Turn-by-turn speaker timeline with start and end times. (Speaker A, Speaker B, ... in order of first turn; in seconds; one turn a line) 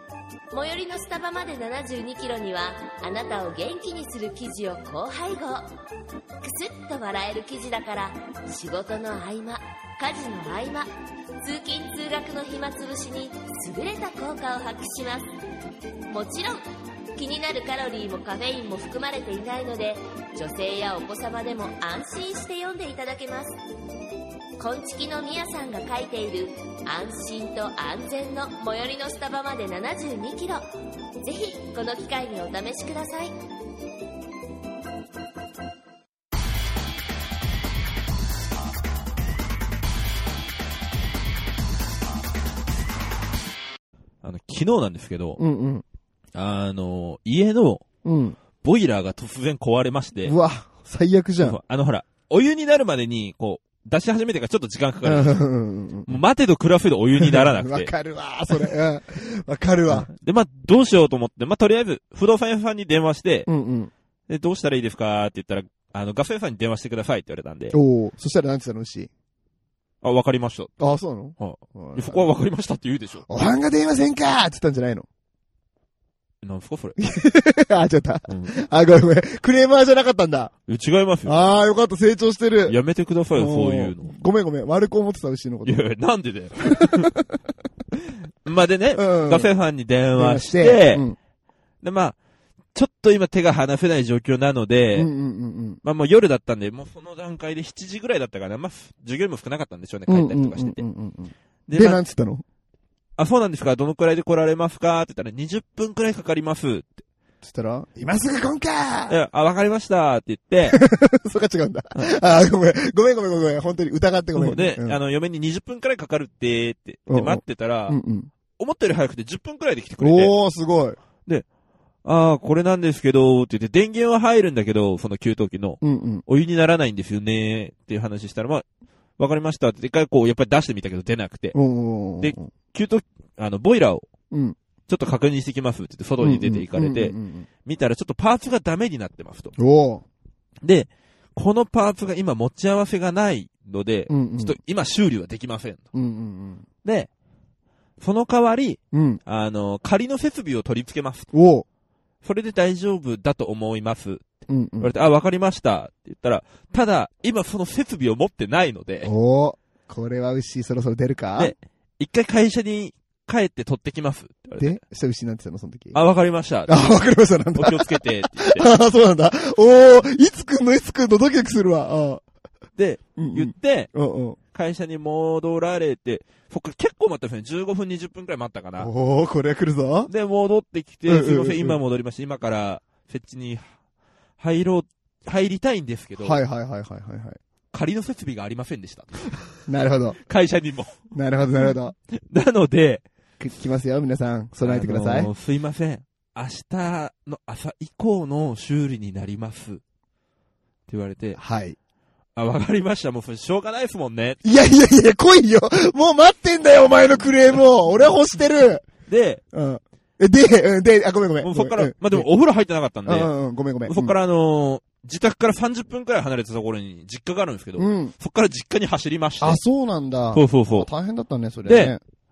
Speaker A: 0.5-5.7
Speaker A: 6.4-15.3
Speaker A: 16.1-23.6
Speaker A: 24.6-30.6
Speaker A: 31.2-33.3
Speaker B: 44.2-45.4
Speaker C: 45.4-45.8
Speaker B: 46.3-47.8
Speaker C: 48.0-48.4
Speaker B: 48.6-50.3
Speaker C: 50.2-51.6
Speaker B: 51.4-55.4
Speaker C: 55.0-56.2
Speaker B: 56.1-57.9
Speaker C: 57.2-60.1
Speaker B: 59.9-63.5
Speaker C: 63.5-63.9
Speaker B: 64.3-67.8
Speaker C: 67.7-69.1
Speaker B: 70.0-70.7
Speaker C: 70.8-72.2
Speaker B: 71.4-73.2
Speaker C: 73.3-75.1
Speaker B: 76.4-77.0
Speaker C: 77.0-80.5
Speaker B: 78.3-78.5
Speaker B: 80.7-81.5
Speaker C: 81.2-82.8
Speaker B: 82.7-84.1
Speaker C: 83.3-85.9
Speaker B: 85.6-87.1
Speaker C: 86.7-87.3
Speaker B: 88.0-91.0
Speaker C: 88.9-89.5
Speaker C: 90.2-91.2
Speaker B: 91.8-92.2
Speaker B: 92.7-95.1
Speaker C: 94.9-95.8
Speaker B: 95.8-100.8
Speaker C: 100.1-102.4
Speaker B: 101.7-102.0
Speaker B: 103.2-107.0
Speaker C: 107.4-109.1
Speaker B: 109.1-110.8
Speaker C: 110.7-115.0
Speaker B: 114.3-118.0
Speaker C: 117.1-118.3
Speaker B: 118.5-120.3
Speaker C: 120.0-121.0
Speaker B: 122.0-128.6
Speaker C: 125.8-126.2
Speaker B: 129.2-131.6
Speaker C: 131.5-132.5
Speaker B: 132.2-134.1
Speaker C: 134.3-134.6
Speaker B: 134.9-139.5
Speaker C: 136.2-137.5
Speaker C: 139.6-140.0
Speaker B: 140.6-145.8
Speaker C: 144.1-144.6
Speaker C: 145.9-146.6
Speaker B: 146.8-147.1
Speaker B: 148.0-151.3
Speaker C: 148.9-149.2
Speaker C: 151.3-151.7
Speaker B: 152.2-154.2
Speaker C: 154.5-154.9
Speaker B: 154.8-159.1
Speaker C: 159.0-161.5
Speaker B: 161.4-164.8
Speaker C: 164.6-166.0
Speaker B: 165.9-166.9
Speaker C: 166.7-172.2
Speaker B: 167.5-168.7
Speaker B: 172.8-173.9
Speaker C: 173.2-174.4
Speaker B: 174.5-178.9
Speaker C: 178.8-180.1
Speaker B: 180.1-183.7
Speaker C: 181.1-181.8
Speaker B: 184.4-186.4
Speaker C: 186.2-187.4
Speaker B: 187.7-189.5
Speaker C: 189.7-190.2
Speaker B: 190.2-191.0
Speaker C: 191.1-191.9
Speaker B: 192.1-193.0
Speaker C: 193.4-195.3
Speaker B: 194.6-199.8
Speaker B: 200.9-201.4
Speaker C: 201.4-201.8
Speaker B: 202.3-204.4
Speaker C: 204.4-208.8
Speaker B: 209.1-209.4
Speaker C: 209.5-212.3
Speaker B: 211.4-213.3
Speaker C: 213.1-214.1
Speaker B: 213.9-219.6
Speaker C: 217.8-218.1
Speaker C: 219.4-222.0
Speaker B: 220.3-220.9
Speaker B: 221.7-221.9